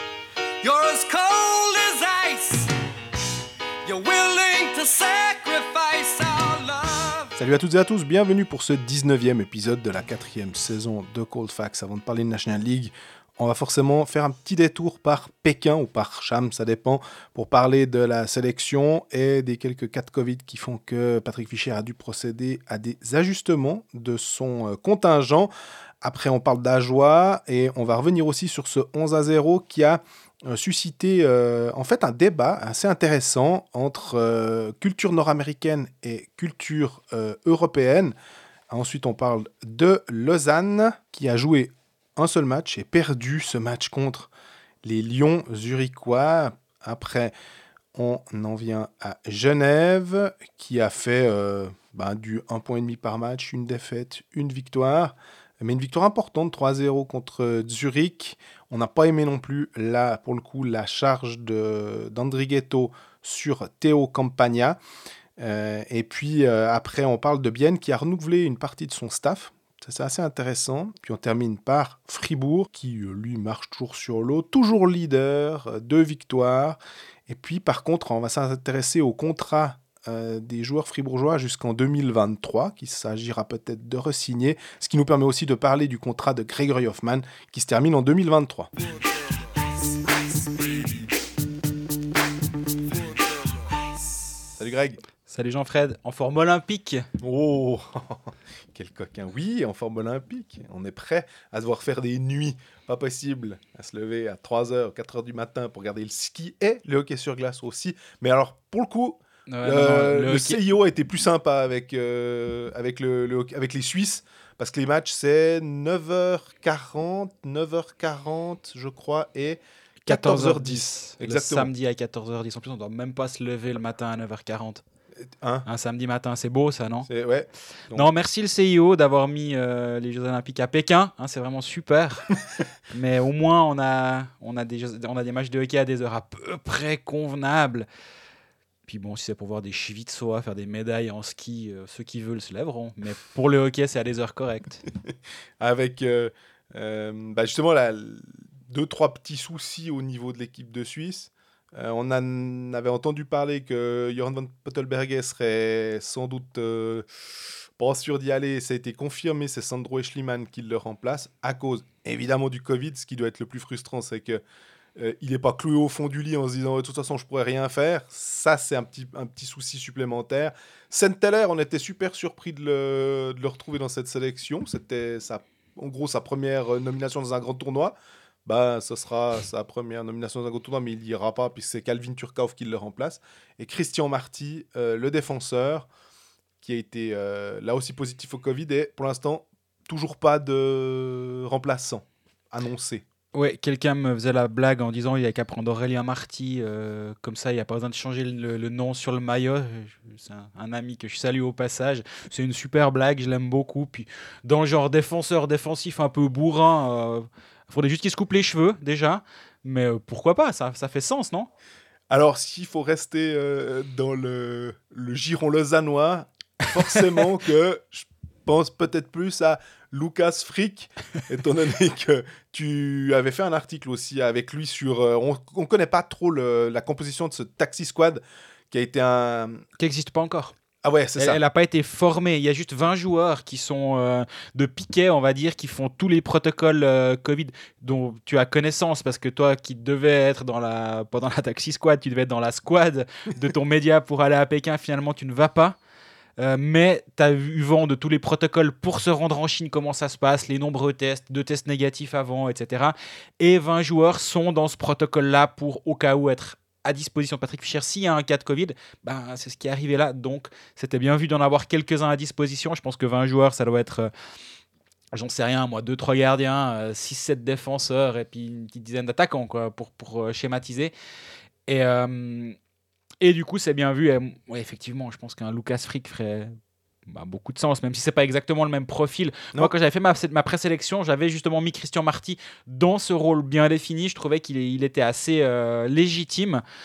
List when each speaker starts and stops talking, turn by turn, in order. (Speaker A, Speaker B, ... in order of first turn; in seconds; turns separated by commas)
Speaker A: 0.6-2.7, Speaker A: 3.8-7.3, Speaker B: 7.3-25.5, Speaker B: 26.0-38.1, Speaker B: 38.7-44.3, Speaker B: 44.8-47.3, Speaker B: 47.9-64.8, Speaker B: 65.4-88.7, Speaker B: 94.6-95.0, Speaker C: 95.3-97.0, Speaker B: 97.2-121.7, Speaker C: 109.5-110.6, Speaker C: 120.0-124.8, Speaker C: 125.6-127.1, Speaker B: 127.1-128.1, Speaker C: 127.9-132.3, Speaker C: 132.9-137.8, Speaker C: 138.8-144.8, Speaker B: 145.1-157.1, Speaker B: 157.8-164.4, Speaker B: 165.0-177.9, Speaker B: 178.4-185.9, Speaker B: 186.6-193.0, Speaker C: 193.3-211.5, Speaker B: 212.1-229.6, Speaker C: 229.8-230.5, Speaker B: 230.8-231.4, Speaker C: 231.2-245.8, Speaker C: 246.4-264.1, Speaker C: 265.1-270.9, Speaker C: 271.7-272.6, Speaker C: 273.2-276.5, Speaker C: 277.1-286.6